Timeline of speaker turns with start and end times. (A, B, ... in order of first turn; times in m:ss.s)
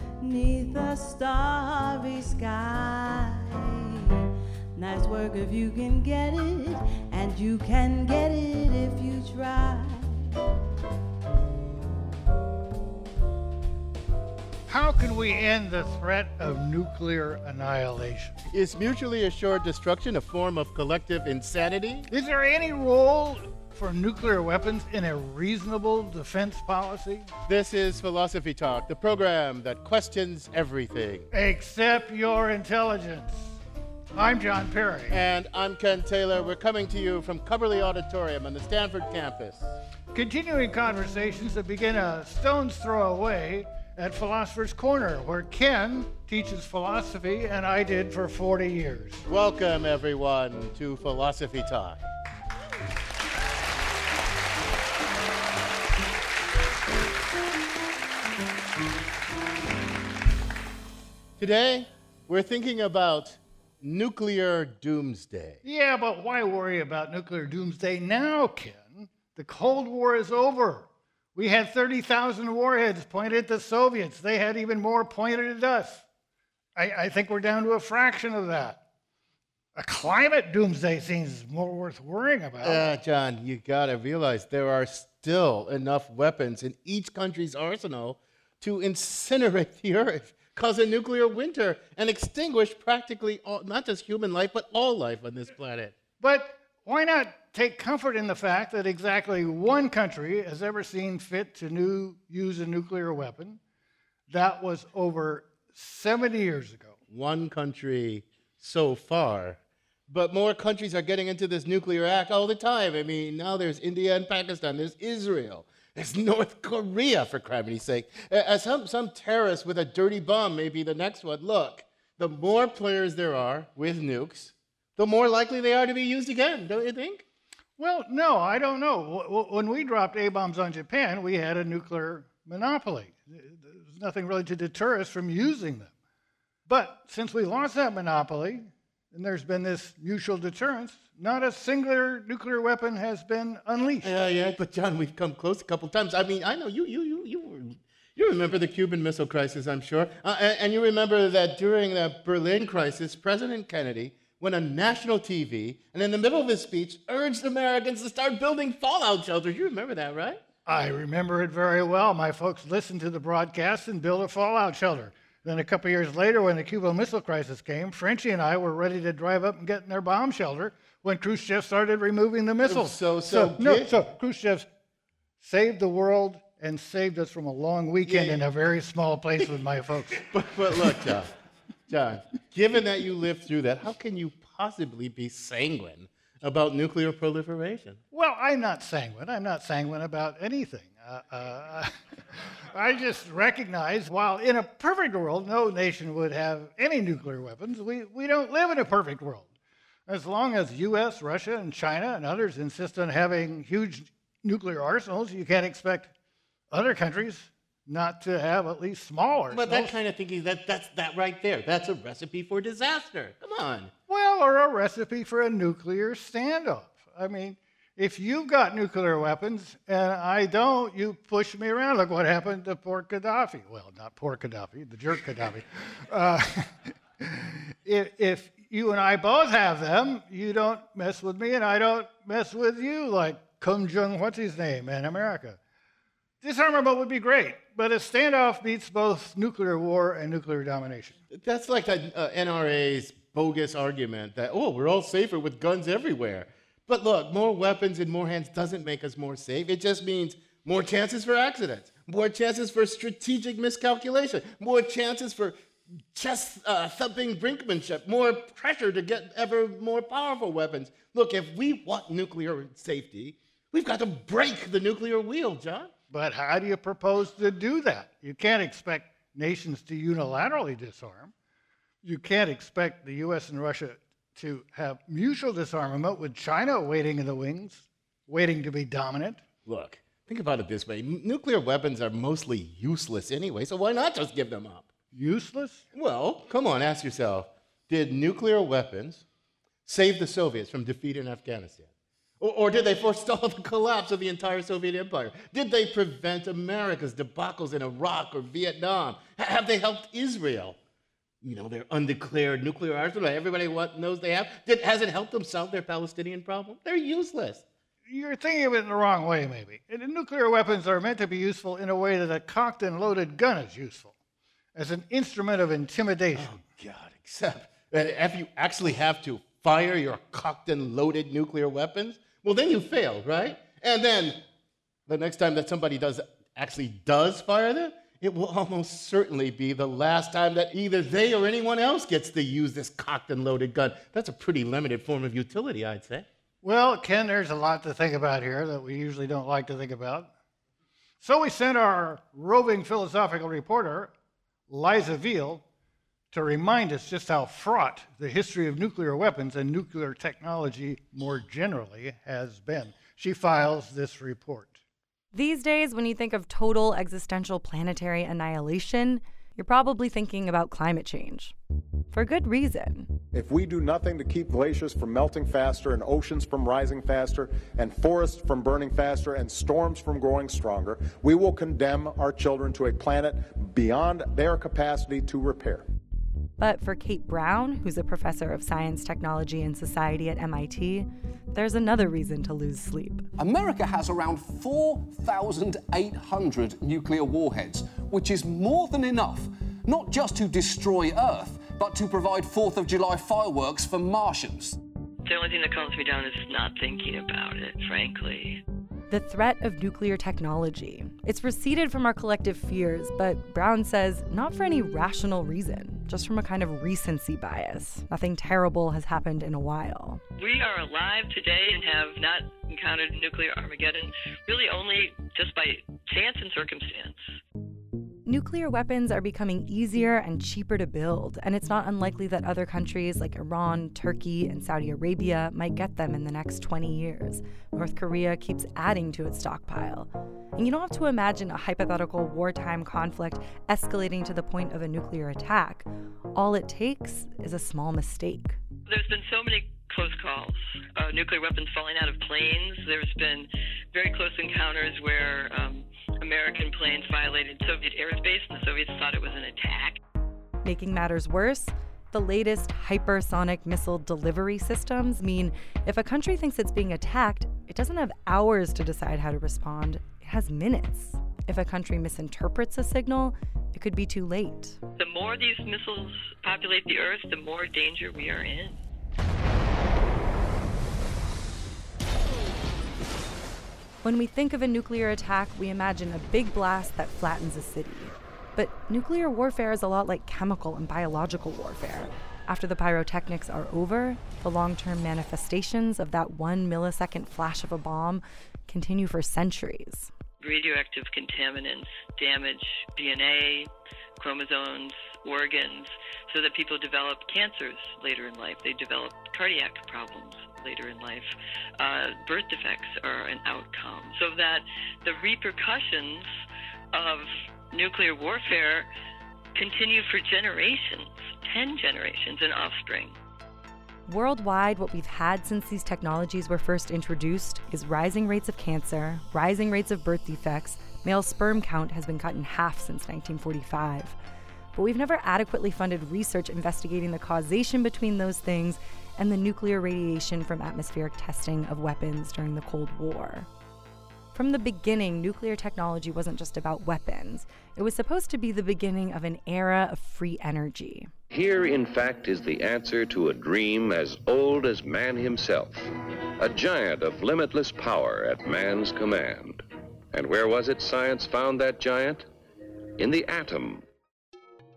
0:00.2-0:03.5 A
0:04.8-0:10.1 A
0:14.7-0:18.3 B
0:18.5-0:22.1 C
0:22.1-0:27.3 B
0:27.5-0:31.3 C
0:31.3-0:33.6 B
0:34.1-0:35.2 B
0:35.1-0:39.7 C
0:40.1-0:49.2 B
0:49.3-0:52.0 C
1:01.4-1:05.6 C
1:05.6-1:16.0 B
1:16.8-1:18.8 B
1:19.8-1:22.9 B
1:22.6-1:36.0 C
1:36.2-1:43.6 B
1:44.3-1:47.0 B
1:47.1-2:07.2 C
2:07.8-2:15.9 B
2:16.6-2:24.1 B
2:24.0-2:40.4 C
2:40.6-2:54.6 B
2:52.6-2:53.9 C
2:55.4-3:00.2 B
2:58.0-2:58.4 C
3:00.2-3:01.3 C
3:01.9-3:08.0 C
3:08.1-3:11.9 B
3:12.7-3:19.5 B
3:20.1-3:26.1 B
3:26.7-3:30.0 B
3:29.5-3:33.9 C
3:34.1-3:55.6 B
3:56.4-4:01.2 B
4:01.3-4:15.5 C
4:16.1-4:25.9 C
4:26.1-4:31.3 B
4:32.0-4:39.5 B
4:39.6-4:44.9 C
4:45.1-4:45.8 B
4:45.9-4:49.2 C
4:49.8-4:51.9 C
4:52.4-5:00.8 C
5:01.4-5:07.6 C
5:08.1-5:14.1 B
5:14.7-5:16.6 B
5:16.3-5:24.4 C
5:25.1-5:36.3 C
5:36.6-5:40.3 B
5:41.2-5:44.1 B
5:44.7-5:45.6 B
5:46.3-5:54.8 B
5:55.3-6:01.5 D
6:02.1-6:03.1 D
6:03.3-6:15.8 E
6:16.6-6:23.2 D
6:23.4-6:34.8 F
6:35.2-6:38.6 G
6:39.1-6:50.2 D
6:50.4-6:57.2 G
6:58.2-7:18.6 D
7:18.8-7:30.0 G
7:30.6-7:44.8 D
7:45.0-7:48.8 G
7:54.0-8:10.1 D
8:10.4-8:26.3 G
8:26.9-8:28.9 G
8:29.5-8:33.2 G
8:34.1-8:44.2 D
8:44.7-8:53.5 D
8:54.3-9:01.1 D
9:01.3-9:09.6 H
9:10.1-9:12.3 H
9:13.0-9:13.8 H